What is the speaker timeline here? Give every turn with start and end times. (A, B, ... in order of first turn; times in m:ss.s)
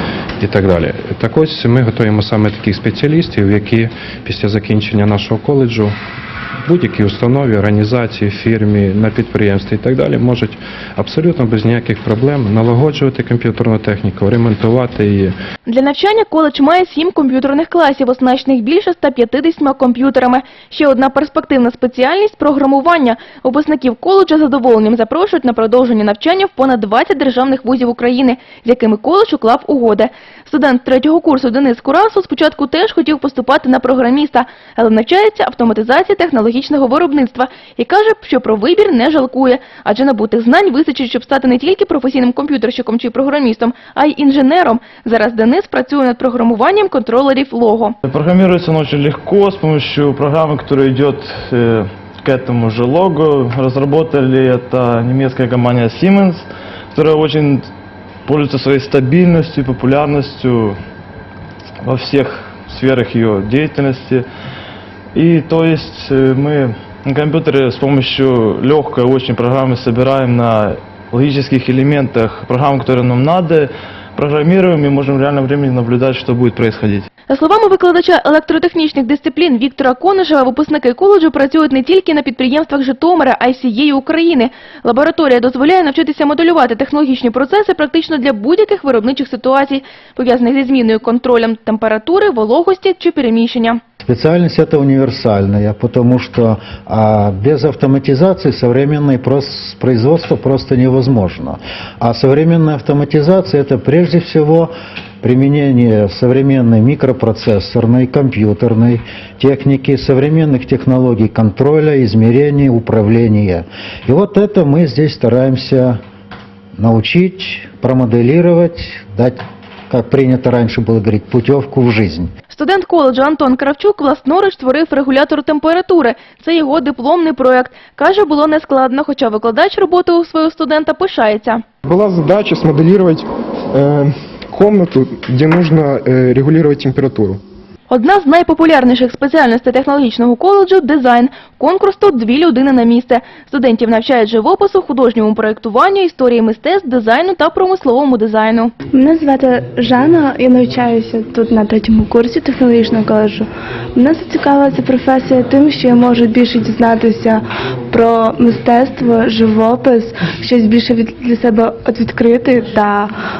0:00.4-0:05.9 A
0:06.6-0:15.3 A
0:15.6-0:48.0 B
0:48.0-0:57.6 C
0:58.3-1:00.8 C
1:01.8-1:04.2 C
1:05.1-1:17.1 C
1:17.3-1:33.8 B
1:34.0-1:56.0 D
1:56.8-2:02.3 D
2:02.5-2:11.6 B
2:11.8-2:17.4 E
2:17.9-2:28.7 B
2:28.9-2:43.1 F